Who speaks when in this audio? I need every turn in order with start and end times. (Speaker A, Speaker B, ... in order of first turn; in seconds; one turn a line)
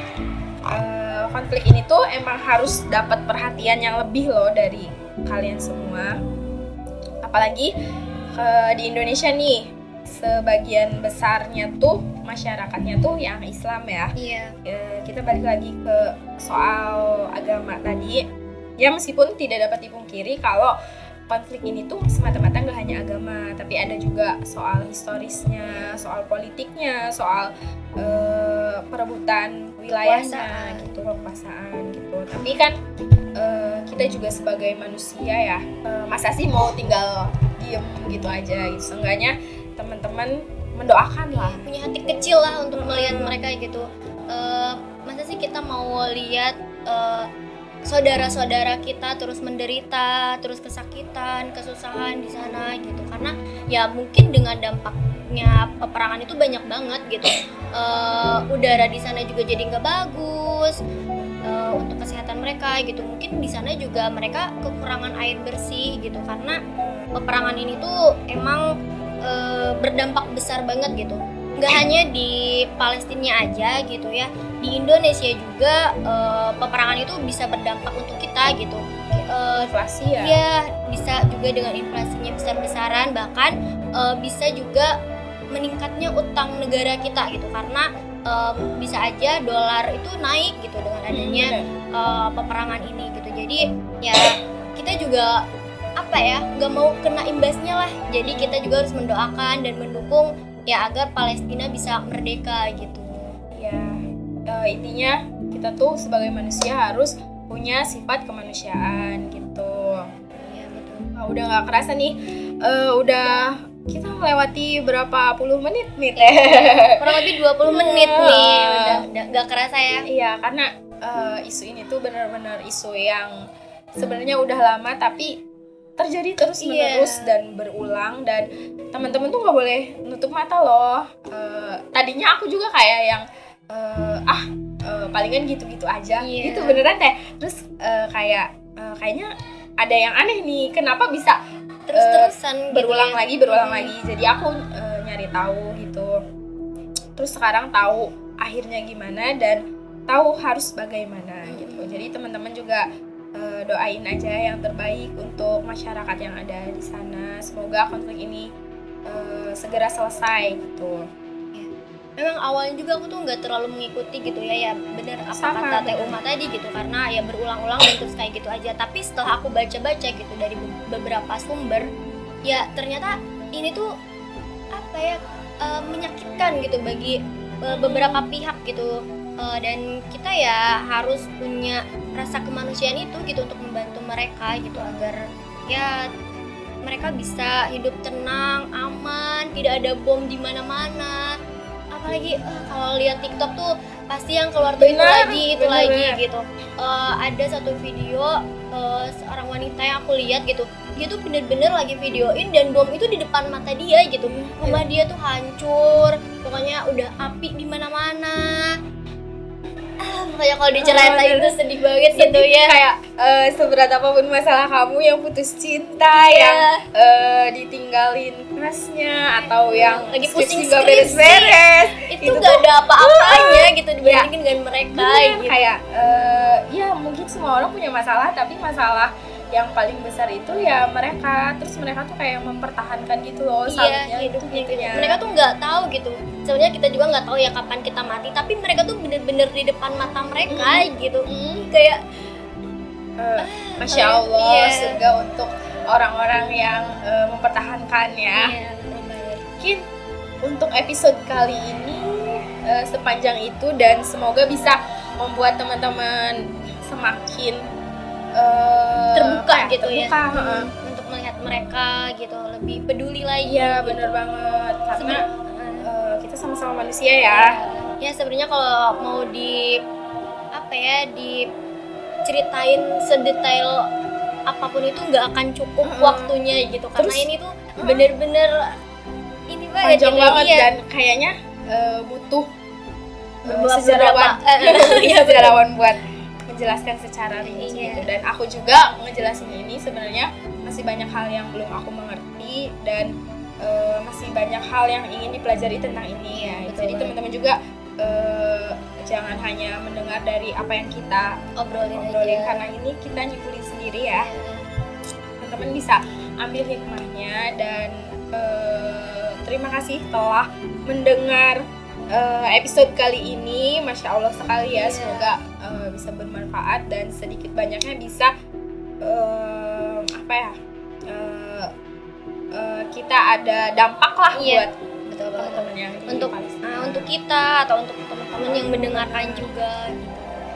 Speaker A: 0.7-6.2
Speaker A: 7.2-7.7
Speaker A: 8.3-14.1
Speaker B: 14.2-14.5
Speaker A: 14.6-18.2
Speaker A: 18.8-20.8
Speaker A: 21.3-32.8
Speaker B: 25.6-26.0
Speaker B: 29.9-31.0
Speaker A: 33.4-41.7
Speaker B: 41.3-47.3
Speaker A: 42.8-43.3
Speaker B: 47.9-60.8
Speaker B: 61.5-66.6
Speaker B: 67.1-68.7
Speaker B: 69.2-84.9
Speaker A: 79.5-80.4
Speaker B: 85.5-95.4
Speaker A: 91.1-91.7
Speaker B: 96.0-103.3
Speaker A: 98.2-98.7
Speaker A: 103.5-110.1
Speaker B: 110.4-111.1
Speaker A: 111.2-119.0
Speaker B: 116.2-120.1
Speaker A: 120.1-123.4
Speaker A: 123.9-125.3
Speaker A: 126.0-141.4
Speaker B: 126.6-127.3
Speaker B: 136.2-136.8
Speaker B: 141.9-143.9
Speaker A: 141.9-146.2
Speaker A: 147.2-158.5
Speaker B: 151.5-152.0
Speaker A: 159.1-161.0
Speaker B: 161.5-171.9
Speaker A: 165.3-166.2
Speaker B: 172.4-173.9
Speaker B: 174.7-186.1
Speaker A: 177.7-178.2
Speaker B: 186.8-191.4
Speaker B: 191.9-208.8
Speaker A: 194.8-196.2
Speaker A: 204.2-204.8
Speaker B: 210.0-212.8
Speaker A: 210.7-211.6
Speaker A: 212.1-224.3
Speaker B: 216.1-216.8
Speaker B: 219.7-225.6
Speaker A: 224.9-235.2
Speaker B: 233.7-242.0
Speaker A: 240.5-241.7
Speaker A: 243.2-248.5
Speaker B: 243.4-245.0
Speaker B: 248.3-249.4
Speaker A: 250.4-257.6
Speaker A: 258.4-260.7
Speaker B: 259.1-264.1
Speaker A: 263.4-265.2
Speaker B: 265.0-265.9
Speaker A: 265.8-267.6
Speaker B: 267.3-269.8
Speaker B: 270.5-271.5
Speaker B: 272.2-273.9
Speaker B: 274.5-278.8
Speaker A: 275.8-276.3
Speaker A: 276.9-277.3
Speaker A: 277.8-278.1
Speaker B: 279.5-280.7
Speaker A: 279.8-282.5
Speaker B: 283.4-285.6
Speaker A: 283.5-301.3
Speaker B: 287.4-288.1
Speaker B: 296.3-297.1
Speaker B: 301.6-302.6
Speaker A: 301.9-304.3
Speaker B: 304.1-304.6
Speaker A: 305.4-318.3
Speaker B: 314.7-315.3
Speaker A: 319.0-320.6
Speaker A: 321.1-321.7
Speaker A: 322.5-327.1
Speaker B: 324.3-330.3
Speaker A: 328.4-329.5